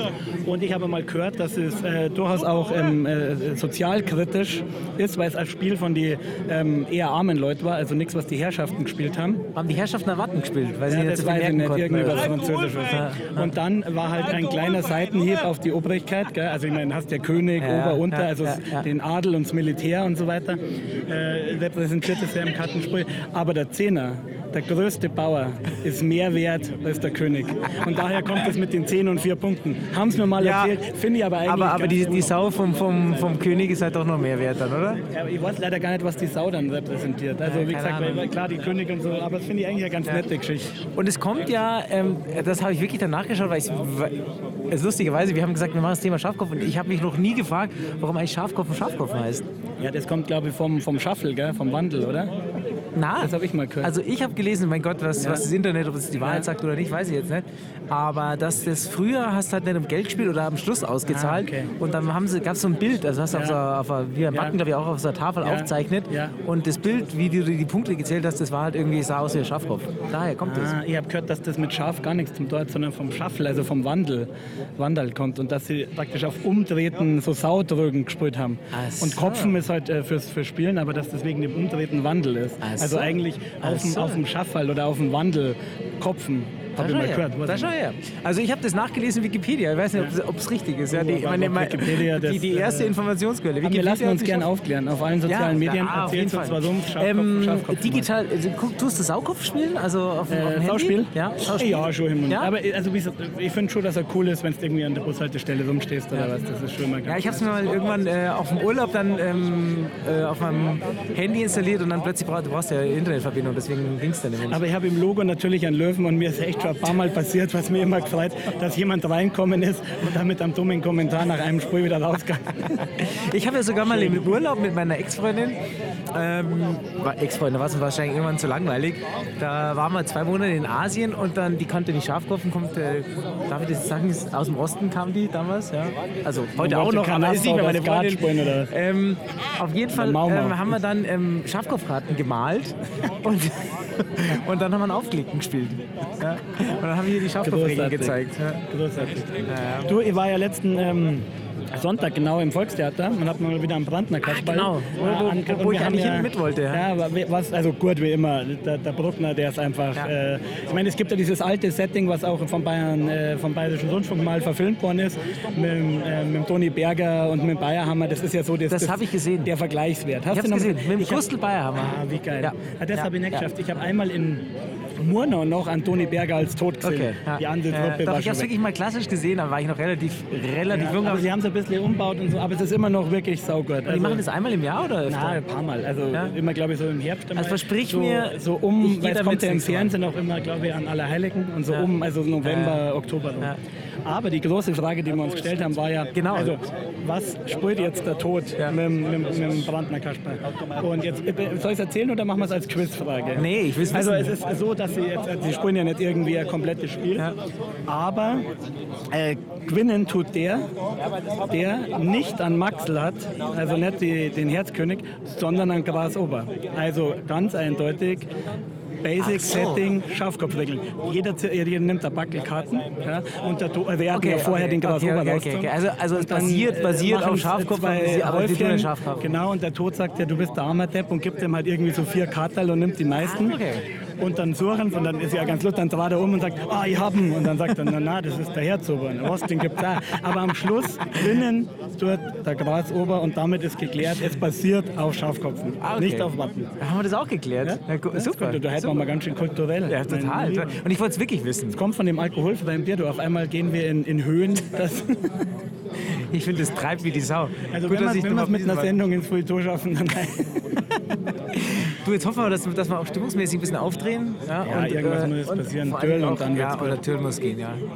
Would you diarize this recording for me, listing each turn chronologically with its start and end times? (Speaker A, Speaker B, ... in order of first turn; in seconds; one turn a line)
Speaker A: 0.4-9.4
Speaker B: 9.5-13.5
Speaker A: 10.8-32.4
Speaker B: 17.6-18.9
Speaker B: 30.4-30.8
Speaker B: 31.4-35.0
Speaker A: 35.0-40.8
Speaker B: 37.4-38.3
Speaker B: 40.9-44.2
Speaker B: 44.7-49.5
Speaker A: 49.8-52.3
Speaker B: 52.9-70.7
Speaker A: 53.2-53.9
Speaker A: 55.2-55.5
Speaker A: 56.2-56.5
Speaker A: 61.1-61.7
Speaker A: 63.3-63.6
Speaker A: 64.3-64.6
Speaker A: 65.4-66.4
Speaker A: 70.4-87.7
Speaker B: 78.7-79.6
Speaker B: 82.6-84.2
Speaker B: 86.8-94.5
Speaker A: 90.9-93.0
Speaker A: 93.6-98.1
Speaker B: 95.2-102.5
Speaker A: 100.3-107.5
Speaker B: 107.0-114.6
Speaker A: 114.5-122.9
Speaker B: 123.0-125.6
Speaker A: 123.8-124.4
Speaker B: 126.1-148.6
Speaker A: 136.6-138.7
Speaker A: 139.9-140.8
Speaker A: 147.4-178.5
Speaker B: 149.4-149.9
Speaker B: 154.2-156.8
Speaker B: 168.7-169.5
Speaker B: 170.3-173.4
Speaker B: 176.8-181.3
Speaker A: 180.7-184.2
Speaker B: 183.8-185.4
Speaker A: 185.1-193.5
Speaker B: 186.1-186.4
Speaker B: 187.3-189.9
Speaker B: 192.4-192.8
Speaker A: 194.1-207.3
Speaker B: 196.1-196.6
Speaker B: 203.3-204.3
Speaker A: 207.9-208.5
Speaker A: 209.1-210.7
Speaker A: 211.5-218.3
Speaker A: 219.0-233.6
Speaker B: 219.2-219.8
Speaker B: 224.1-229.3
Speaker B: 233.2-233.8
Speaker A: 234.2-246.7
Speaker B: 245.8-249.1
Speaker A: 247.6-250.8
Speaker B: 249.9-251.8
Speaker A: 251.7-255.4
Speaker B: 256.1-258.9
Speaker A: 257.7-260.8
Speaker B: 261.5-267.8
Speaker A: 264.6-267.0